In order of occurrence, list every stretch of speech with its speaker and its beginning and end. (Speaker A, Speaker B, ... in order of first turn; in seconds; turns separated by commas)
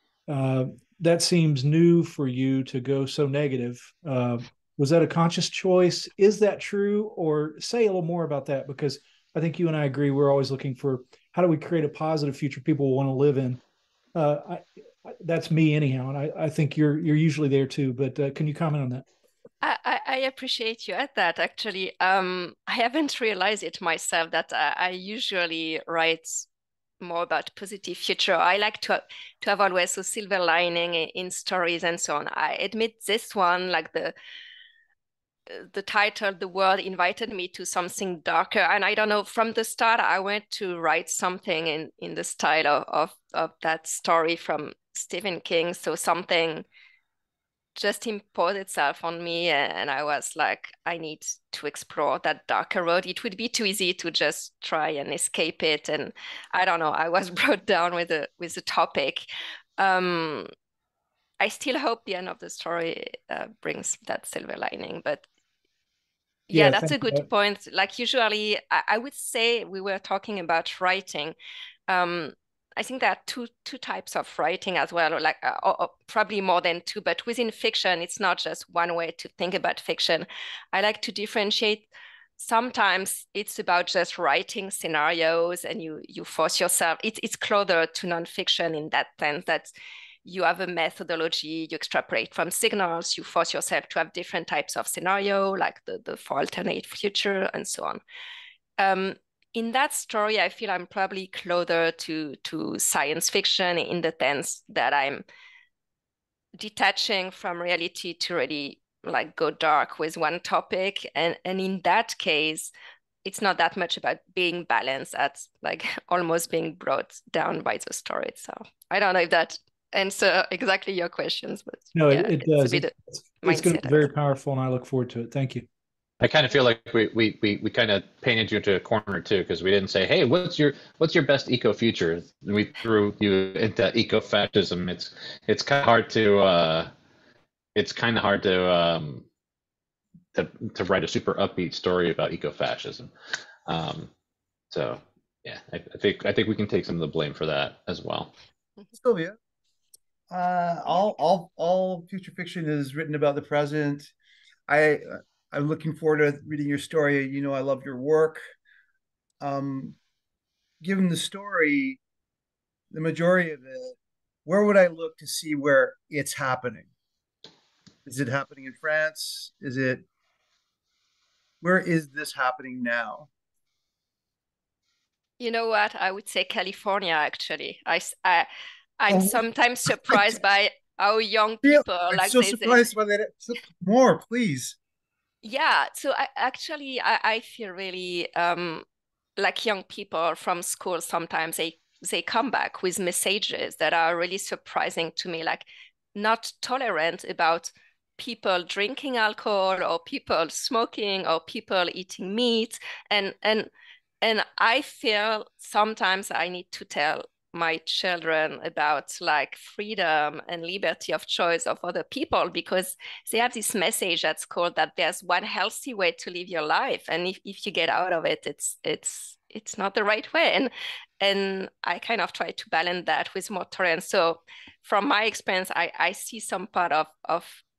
Speaker A: 0.3-13.6, Speaker A: 14.2-19.1, Speaker B: 19.6-26.5, Speaker B: 27.0-34.1, Speaker B: 35.5-46.7, Speaker B: 47.8-59.2, Speaker B: 59.8-60.5, Speaker B: 61.4-65.3, Speaker B: 66.5-71.3, Speaker A: 66.5-67.2, Speaker B: 71.9-89.7, Speaker B: 90.2-98.0, Speaker B: 98.8-105.2, Speaker B: 106.6-112.7, Speaker B: 113.2-124.1, Speaker A: 121.9-125.7, Speaker C: 126.2-136.9, Speaker C: 137.8-139.3, Speaker C: 140.3-143.1, Speaker C: 143.7-144.1, Speaker C: 144.7-148.3, Speaker D: 148.9-149.4, Speaker D: 150.3-154.1, Speaker D: 154.7-158.4, Speaker D: 159.4-160.0, Speaker D: 160.8-162.0, Speaker D: 162.9-166.9, Speaker D: 168.1-170.0, Speaker D: 171.6-173.3, Speaker B: 175.4-178.5, Speaker B: 179.0-182.8, Speaker D: 179.1-179.4, Speaker D: 180.0-180.4, Speaker D: 181.6-184.8, Speaker B: 185.4-188.8, Speaker B: 189.4-227.6